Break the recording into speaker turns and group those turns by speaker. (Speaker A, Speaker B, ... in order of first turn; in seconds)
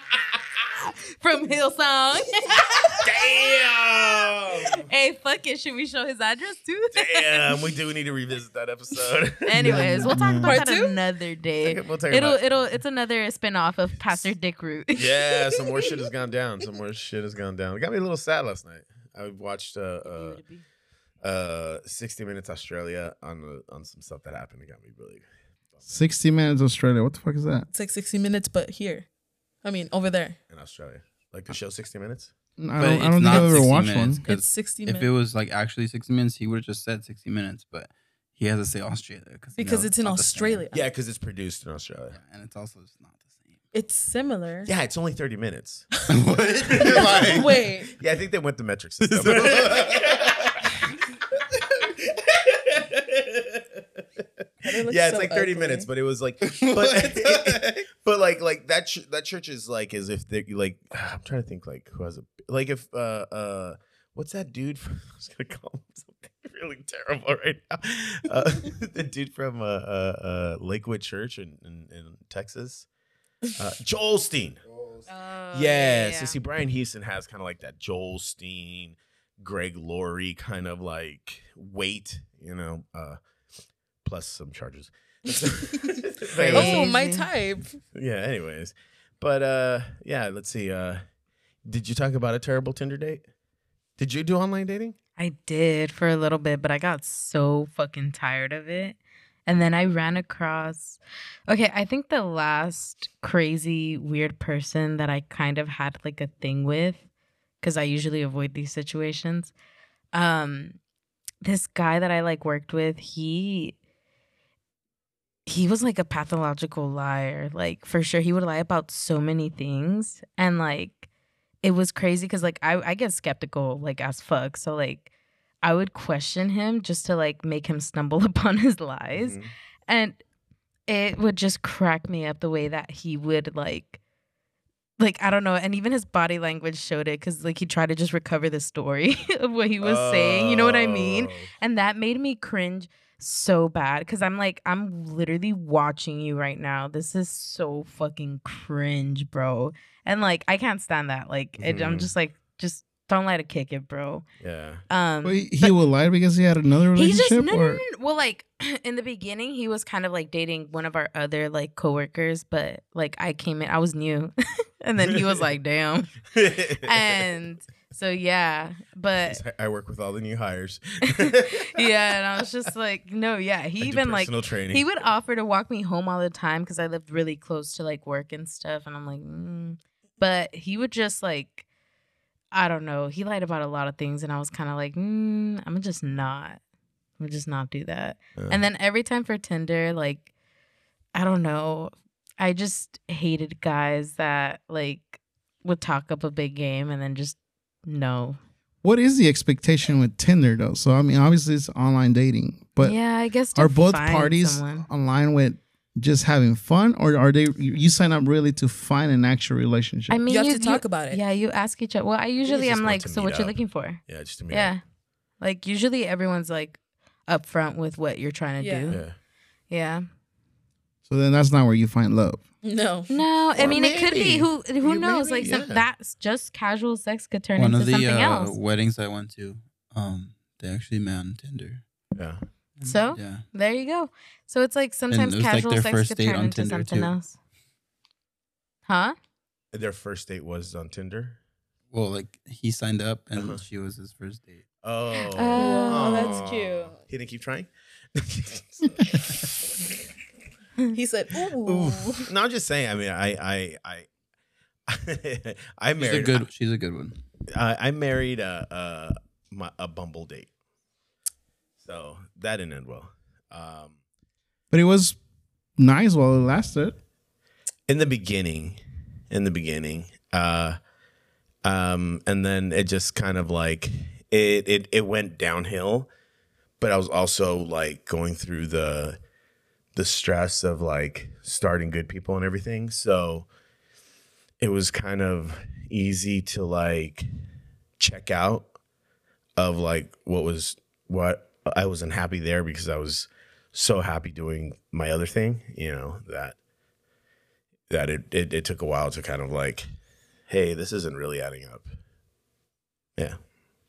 Speaker A: 0.8-3.4, 4.7-7.5, 9.4-16.0, 20.0-20.6, 75.1-76.4, 86.3-87.3, 95.2-107.0, 107.6-109.5, 110.1-110.8, 111.4-113.8, 115.5-121.1, 121.6-125.1, 125.6-130.2, 130.9-134.0, 135.0-154.2, 154.9-155.7, 156.9-166.2, 166.8-169.4, 171.1-181.6, 182.5-186.6, 187.2-190.3, 191.1-198.4, 202.8-204.9, 210.1-214.8, 215.4-219.0, 219.7-220.1, 223.1-228.6, 232.8-237.3, 238.9-239.2, 245.3-246.3
Speaker B: 3.0-4.8, 6.9-10.1, 11.6-12.4, 14.9-20.4, 21.2-25.9, 30.5-32.3, 40.7-42.1, 44.6-46.0, 46.7-50.5, 52.1-72.9, 73.5-74.6, 75.5-83.2, 84.0-86.9, 87.9-91.0, 91.6-93.2, 94.0-95.0, 129.1-129.5, 139.8-141.5, 151.6-152.1, 154.4-154.8, 165.1-165.4, 166.3-167.2, 169.3-172.1, 173.8-174.8, 188.3-188.7, 212.5-214.8, 218.9-219.2, 223.5-225.8, 232.1-232.4, 239.7-241.4, 243.3-243.6, 244.8-249.5, 251.7-254.1, 254.9-256.5, 257.5-260.5, 261.8-263.9, 267.9-268.8, 269.3-270.8, 271.6-276.1, 276.8-279.2, 279.9-283.5, 284.6-287.2, 288.0-288.7, 289.6-296.6, 297.9-299.9, 300.5-301.9
Speaker C: 9.6-10.6, 25.9-27.7, 32.6-34.2, 155.2-157.8, 198.8-203.0, 203.5-210.2, 221.1-222.4, 264.7-265.2, 265.8-266.9
Speaker D: 10.4-10.9, 27.7-29.1, 29.6-30.4, 34.2-35.1, 39.6-40.9, 43.7-44.7, 46.8-47.9, 54.6-55.9, 86.5-87.8, 210.3-211.2, 218.6-218.9, 222.6-223.2, 245.5-247.0, 250.9-252.3
Speaker E: 32.8-40.6, 42.1-43.5, 46.1-47.6, 49.0-50.5, 56.4-57.7, 227.6-231.8, 232.8-233.4, 235.1-237.1, 241.9-244.6, 256.0-257.2